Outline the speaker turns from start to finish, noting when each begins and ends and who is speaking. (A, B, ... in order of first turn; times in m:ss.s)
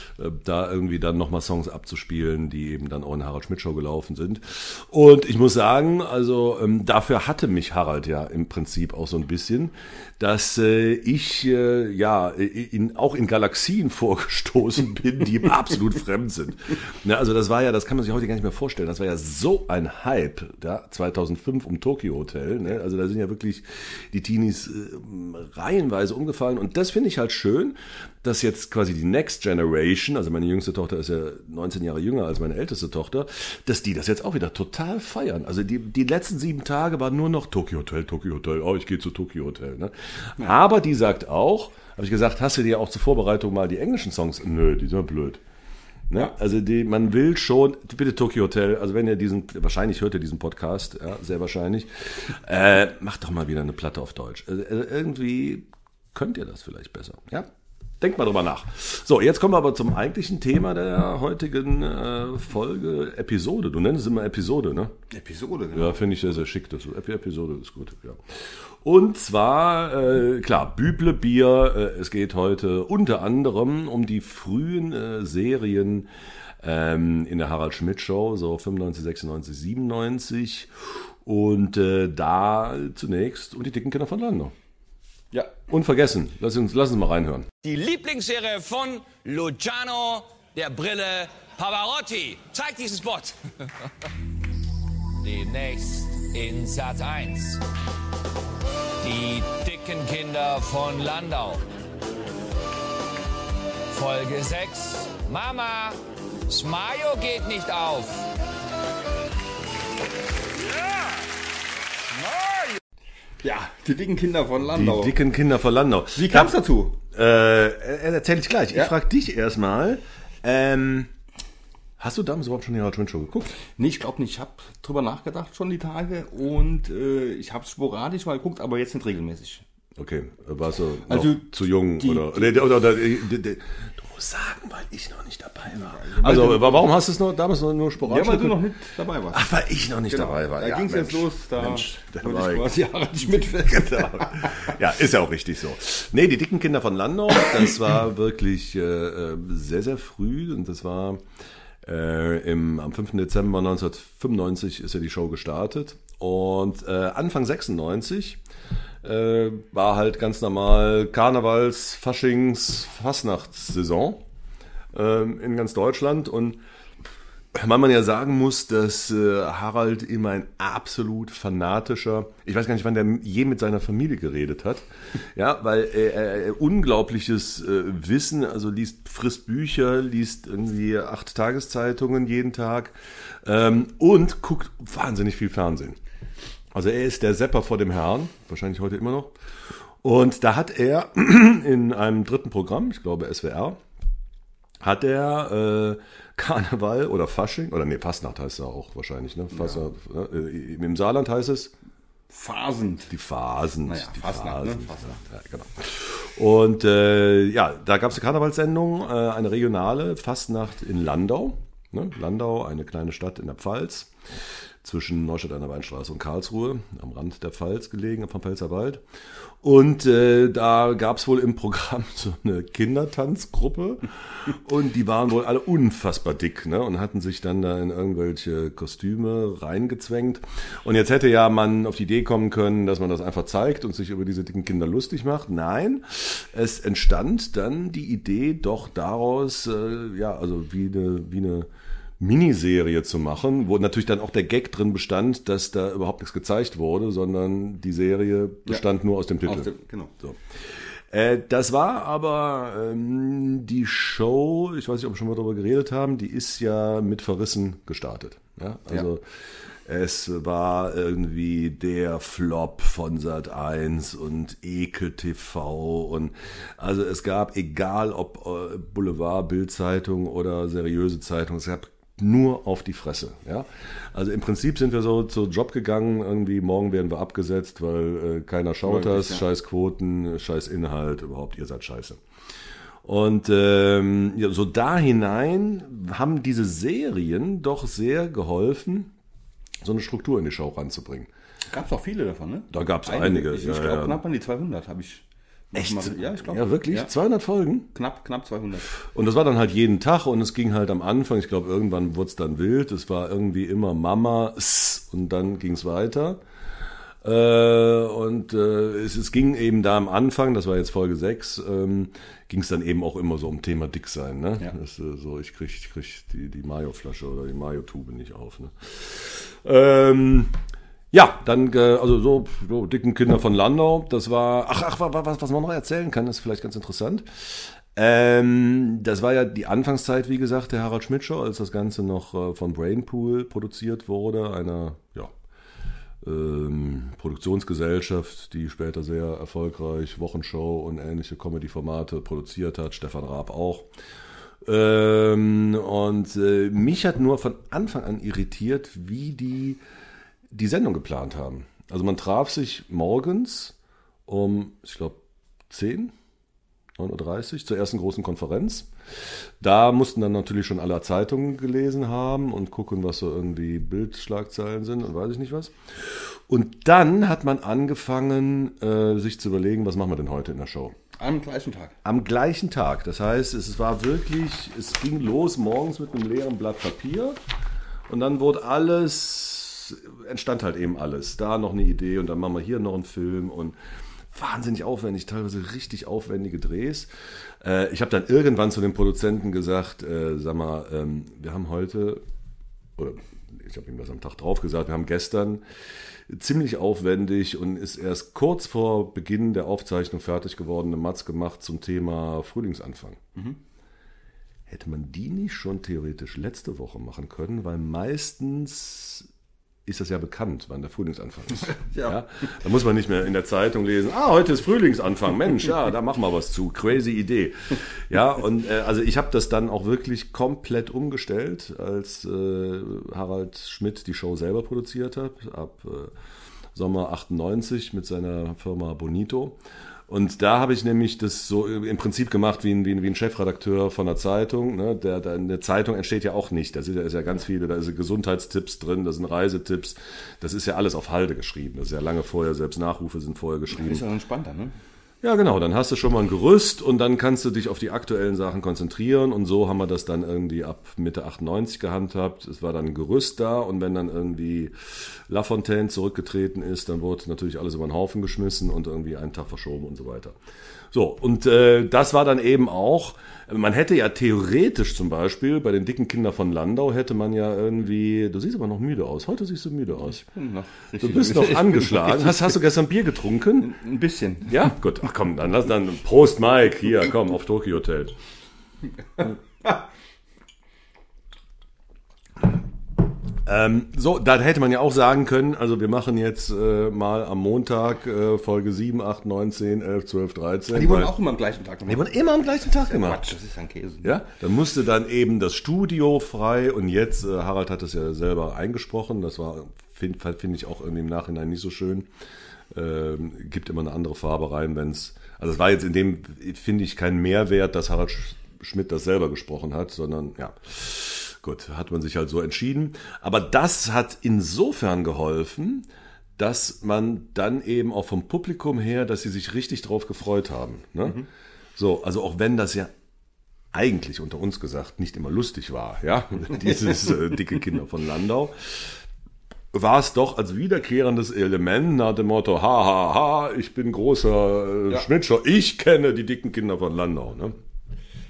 0:00.2-0:45.4 A
0:46.1-0:57.5 A
0:58.0-1:04.9 A
1:05.1-1:06.2 B
1:05.7-1:16.1 A
1:16.6-1:20.7 A
1:21.2-1:24.5 A
1:25.7-1:27.5 A
1:27.6-1:33.4 C
1:35.2-1:37.6 C
1:39.0-1:41.6 C
1:43.9-1:48.3 C
1:52.2-1:52.8 C
1:53.4-1:55.2 B
1:54.6-1:56.6 A
1:56.2-1:57.0 B
1:57.1-2:01.1 A
2:02.0-2:03.6 A
2:03.7-2:09.6 B
2:10.0-2:18.7 A
2:11.1-2:12.7 B
2:15.7-2:16.9 B
2:18.0-2:19.5 B
2:19.3-2:22.7 A
2:20.1-2:24.8 B
2:23.3-2:31.2 A
2:31.8-2:38.4 A
2:39.0-2:44.2 A
2:44.9-2:46.6 A
2:47.5-3:06.0 A
3:06.7-3:09.3 A
3:10.0-3:13.8 A
3:14.8-3:21.7 A
3:22.3-3:23.1 B
3:23.1-3:34.1 A
3:23.8-3:25.2 B
3:34.8-3:39.0 A
3:39.6-4:01.7 A
4:02.2-4:10.4 A
4:09.4-4:10.1 B
4:11.1-4:19.2 A
4:19.8-4:42.2 A
4:38.8-4:39.4 B
4:43.0-4:49.1 A
4:49.8-4:51.3 A
4:51.7-4:57.1 B
4:52.7-4:54.2 A
4:55.7-4:57.9 A
4:57.9-4:58.9 B
4:59.1-5:06.4 A
5:07.2-5:20.5 A
5:21.1-5:35.3 A
5:36.2-5:43.9 A
5:44.6-5:49.8 A
5:50.5-5:53.8 A
5:54.3-5:56.1 A
5:57.0-5:58.9 A
5:59.6-6:10.9 A
6:11.2-6:12.0 B
6:12.0-6:17.4 A
6:18.1-6:23.7 A
6:24.3-6:27.1 A
6:27.6-6:32.2 A
6:33.0-6:35.6 A
6:36.3-6:43.2 A
6:44.7-6:49.3 A
6:49.8-7:06.1 A
6:51.8-6:52.2 B
7:06.7-7:09.6 A
7:10.1-7:24.0 A
7:23.7-7:24.7 B
7:25.2-7:40.3 A
7:40.9-7:50.2 A
7:49.9-7:52.6 B
7:51.0-7:53.7 A
7:53.6-7:54.6 B
7:54.4-7:58.2 A
8:03.4-8:11.1 A
8:10.7-8:14.1 B
8:11.8-8:13.2 A
8:14.0-8:22.1 A
8:22.7-8:35.9 A
8:36.4-8:41.2 A
8:41.8-8:42.9 A
8:43.7-8:48.9 A
8:49.7-8:57.5 A